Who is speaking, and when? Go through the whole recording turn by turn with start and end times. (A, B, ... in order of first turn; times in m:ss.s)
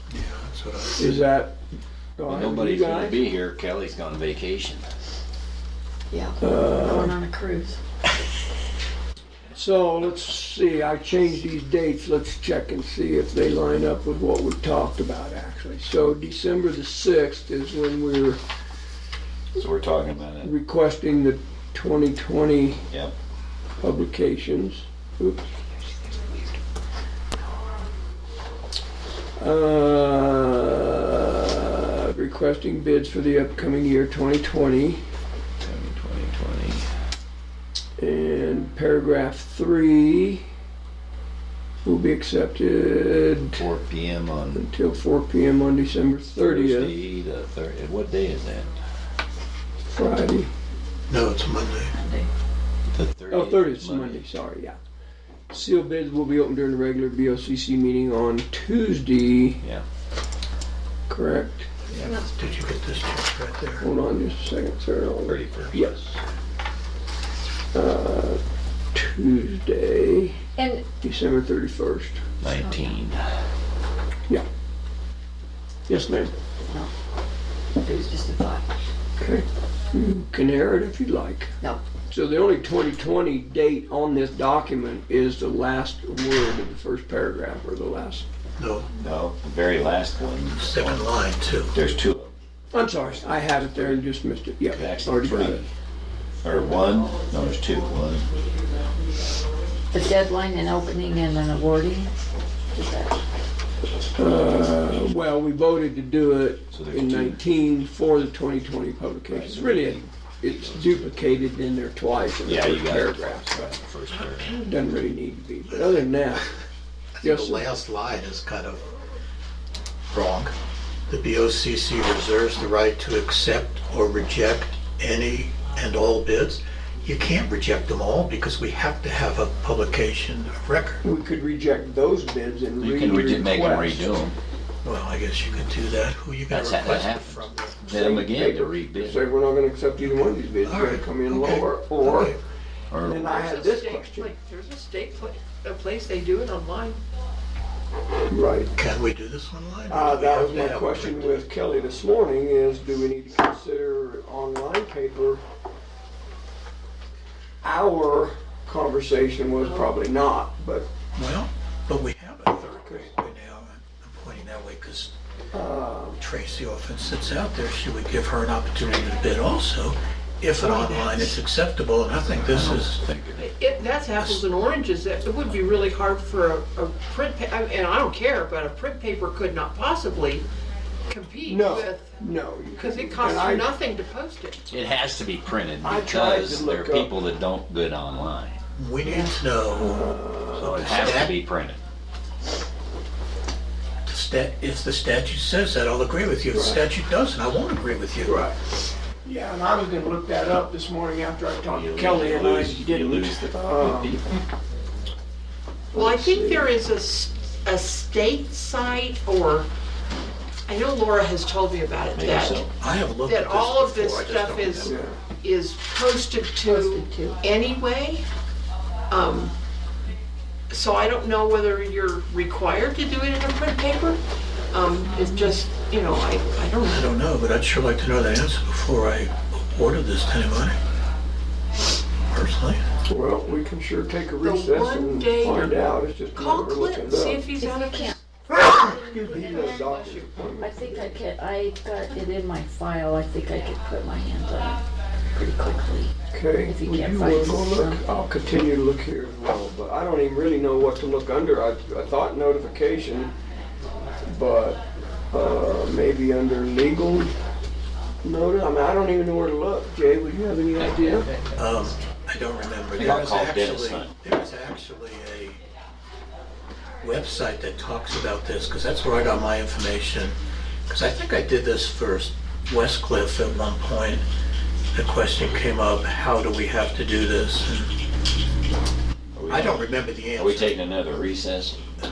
0:00.1-0:01.2 A
0:01.0-0:01.6 B
0:02.2-0:03.2 B
0:02.2-0:04.8 C
0:06.1-0:07.8 D
0:06.4-0:07.2 B
0:09.5-0:18.4 B
0:19.5-0:20.5 C
0:20.4-0:22.8 B
0:22.9-0:23.1 C
0:23.8-0:25.6 B
0:29.4-0:35.0 B
0:35.6-0:36.8 C
0:38.0-0:40.4 B
0:41.8-0:43.6 B
0:43.6-0:44.6 C
0:44.5-0:46.9 B
0:46.4-0:48.7 C
0:49.9-0:50.5 B
0:51.1-0:51.9 A
0:51.9-0:52.3 D
0:52.9-0:54.2 C
0:53.3-0:54.8 B
0:55.5-0:59.6 B
1:01.1-1:01.7 B
1:01.9-1:03.8 A
1:02.0-1:02.2 D
1:03.8-1:06.2 B
1:05.3-1:06.0 C
1:07.7-1:08.4 B
1:08.9-1:10.4 B
1:10.6-1:10.8 D
1:11.0-1:12.2 B
1:12.4-1:13.2 C
1:12.5-1:13.0 D
1:15.9-1:16.3 B
1:17.8-1:18.7 D
1:19.2-1:21.5 B
1:22.0-1:28.2 B
1:28.6-1:28.9 A
1:29.0-1:31.1 C
1:30.6-1:31.7 A
1:31.7-1:32.3 C
1:32.7-1:35.6 B
1:33.0-1:34.0 C
1:34.7-1:35.7 C
1:36.4-1:38.3 C
1:39.9-1:42.1 D
1:42.7-1:43.2 D
1:44.2-1:53.7 B
1:46.7-1:47.4 C
1:49.3-1:51.3 C
1:52.4-1:54.6 C
1:54.5-1:56.5 B
1:55.7-1:56.1 A
1:57.2-1:58.9 A
1:57.2-1:57.7 B
2:00.1-2:00.5 A
2:01.1-2:11.0 A
2:11.0-2:14.2 B
2:12.8-2:14.4 C
2:14.8-2:17.8 A
2:16.5-2:19.2 C
2:17.9-2:22.4 B
2:20.0-2:22.4 A
2:22.9-2:23.2 C
2:23.0-2:24.3 B
2:23.1-2:27.0 E
2:28.3-2:28.7 B
2:28.7-2:31.5 A
2:29.9-2:35.4 B
2:37.6-2:40.9 B
2:41.1-2:45.1 A
2:42.8-2:43.1 B
2:45.5-2:46.2 B
2:46.2-2:53.0 A
2:51.0-2:51.3 E
2:52.3-2:53.5 C
2:53.4-3:00.4 E
2:54.1-2:54.4 A
3:01.1-3:02.1 E
3:01.4-3:03.7 B
3:02.8-3:04.6 E
3:04.7-3:08.6 C
3:05.8-3:07.1 B
3:08.8-3:11.3 A
3:09.0-3:09.3 D
3:09.8-3:11.2 B
3:10.6-3:11.8 C
3:14.0-3:18.4 A
3:16.5-3:16.8 B
3:18.2-3:18.6 B
3:19.2-3:24.2 B
3:21.7-3:24.2 C
3:25.9-3:26.7 B
3:25.9-3:29.7 E
3:30.7-3:32.7 E
3:32.1-3:32.7 C
3:32.7-3:35.0 A
3:33.2-3:38.2 E
3:34.8-3:35.2 B
3:36.6-3:37.4 D
3:39.1-3:39.5 E
3:40.7-3:44.2 E
3:44.7-3:47.1 E
3:46.8-3:50.8 A
3:52.3-3:52.8 A
3:53.0-3:57.5 B
3:54.4-3:58.2 E
3:57.6-4:00.0 D
3:58.5-4:01.2 B
3:59.1-4:00.3 E
4:00.6-4:06.1 D
4:06.3-4:13.3 B
4:06.6-4:08.0 D
4:14.2-4:14.8 B
4:15.3-4:17.3 B
4:18.2-4:21.3 B
4:21.1-4:21.6 C
4:21.6-4:25.6 A
4:23.0-4:24.1 C
4:27.0-4:34.2 A
4:34.9-4:37.9 A
4:39.3-4:41.8 C
4:39.5-4:40.8 A